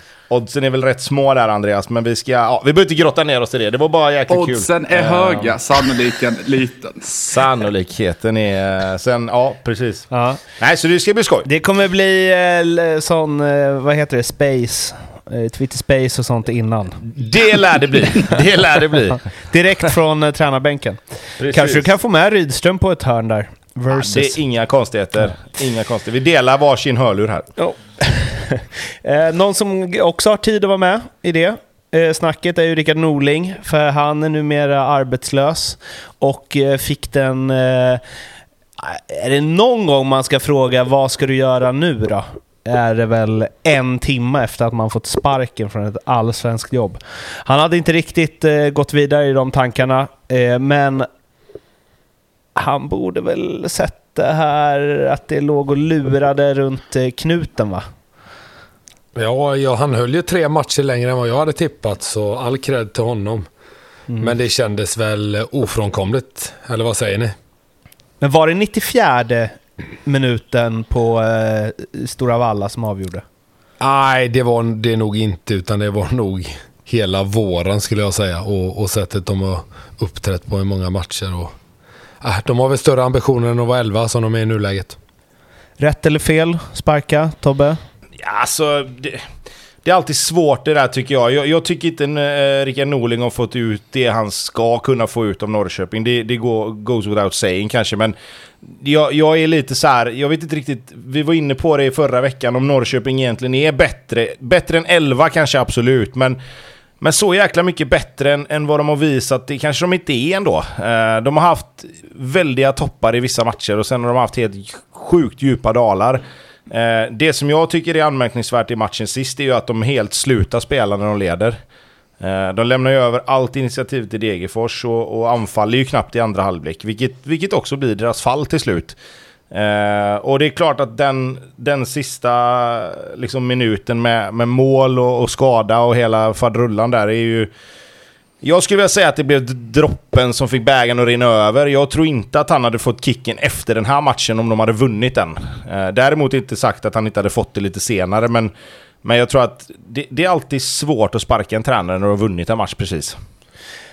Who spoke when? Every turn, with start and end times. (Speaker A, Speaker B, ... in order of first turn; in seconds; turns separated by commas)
Speaker A: 0.3-5.6, Speaker B: 4.3-7.1, Speaker A: 7.1-10.1, Speaker C: 10.1-10.4, Speaker A: 10.6-11.5, Speaker C: 11.4-17.0, Speaker A: 17.1-19.2, Speaker C: 19.5-24.4, Speaker A: 21.4-21.9, Speaker A: 23.9-27.5, Speaker C: 27.6-38.0, Speaker C: 38.8-51.1, Speaker C: 52.6-57.9, Speaker D: 59.1-63.5, Speaker D: 64.2-67.3, Speaker C: 68.2-73.2, Speaker D: 73.8-81.5, Speaker D: 82.2-85.0, Speaker C: 85.8-87.8, Speaker A: 88.2-89.3, Speaker A: 89.8-106.4, Speaker A: 107.0-121.6, Speaker A: 122.2-129.0, Speaker A: 129.5-137.5, Speaker A: 138.4-148.5, Speaker A: 149.0-153.2